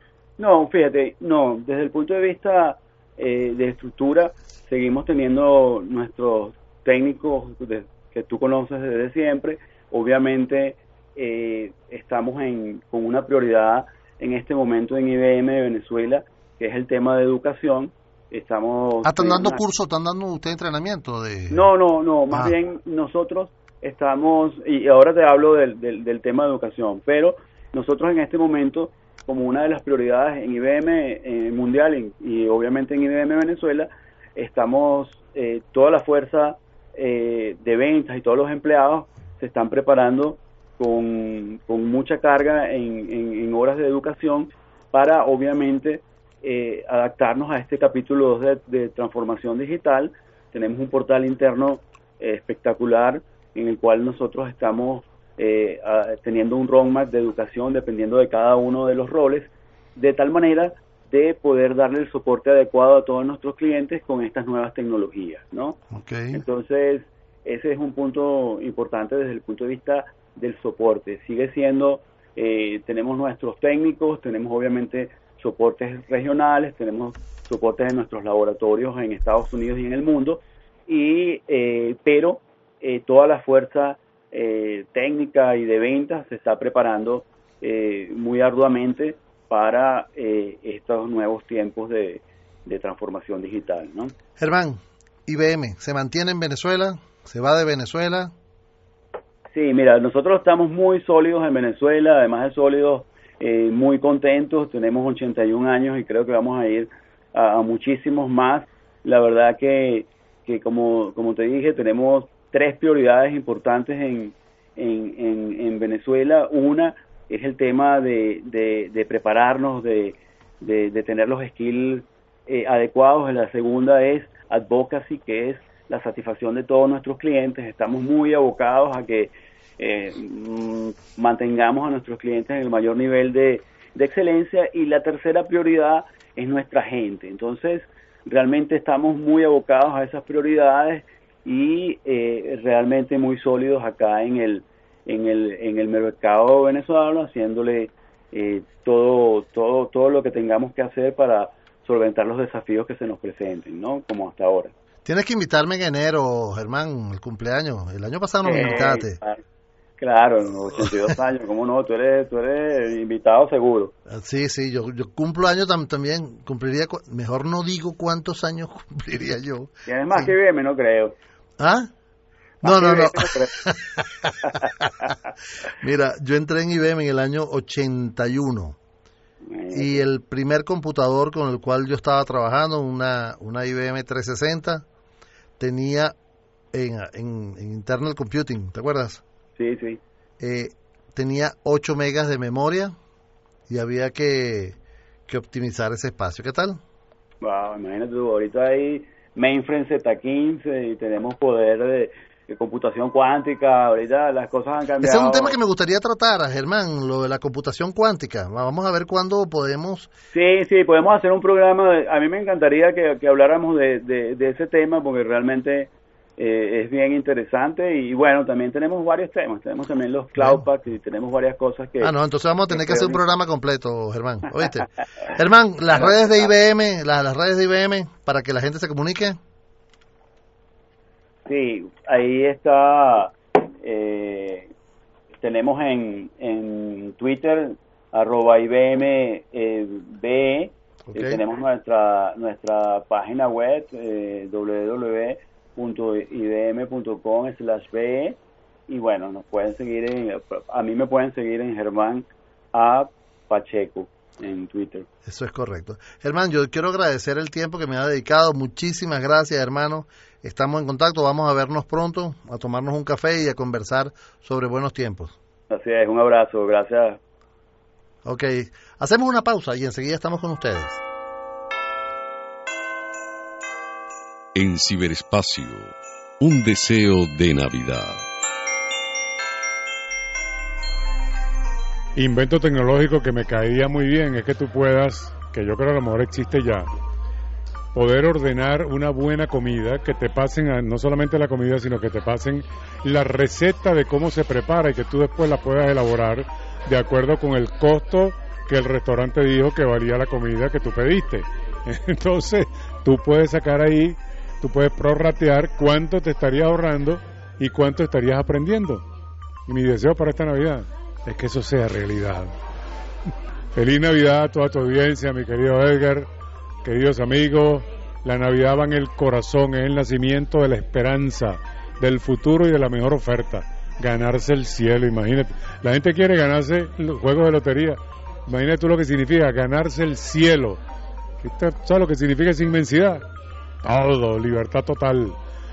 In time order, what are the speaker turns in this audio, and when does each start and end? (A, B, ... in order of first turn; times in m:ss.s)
0:00.4-0:19.6 A
0:19.0-0:21.7 B
0:21.5-1:05.8 A
0:22.3-0:22.6 B
1:05.9-1:06.4 B
1:06.3-1:34.1 A
1:34.4-1:38.3 B
1:39.5-2:34.7 A
2:35.0-2:39.2 B
2:38.4-2:39.4 A
2:40.0-2:43.9 A
2:44.1-2:50.3 B
2:49.8-2:51.1 A
2:51.6-2:51.9 B
2:52.6-2:54.3 B
2:52.6-2:53.6 A
2:54.4-2:54.7 A
2:55.8-2:58.8 B
2:59.4-3:00.0 A
2:59.7-3:04.8 B
3:05.6-3:06.1 B
3:06.7-3:09.2 B
3:09.6-3:10.0 A
3:10.4-3:12.9 B
3:13.7-3:16.8 B
3:17.4-3:25.6 A
3:25.0-3:30.1 B
3:30.3-3:42.1 A
3:40.4-3:40.7 B
3:42.0-3:49.4 B
3:42.7-3:43.2 A
3:51.4-3:54.7 A
3:55.4-4:08.4 A
4:01.1-4:01.4 B
4:08.9-4:15.1 A
4:15.2-4:25.4 B
4:25.7-4:27.2 A
4:28.2-4:31.0 B
4:34.5-4:38.2 C
4:42.2-4:46.9 D
4:47.9-5:09.0 D
5:09.7-5:12.5 D
5:13.7-5:16.3 D
5:16.8-5:30.8 D
5:31.4-5:33.2 D
5:33.8-5:35.4 D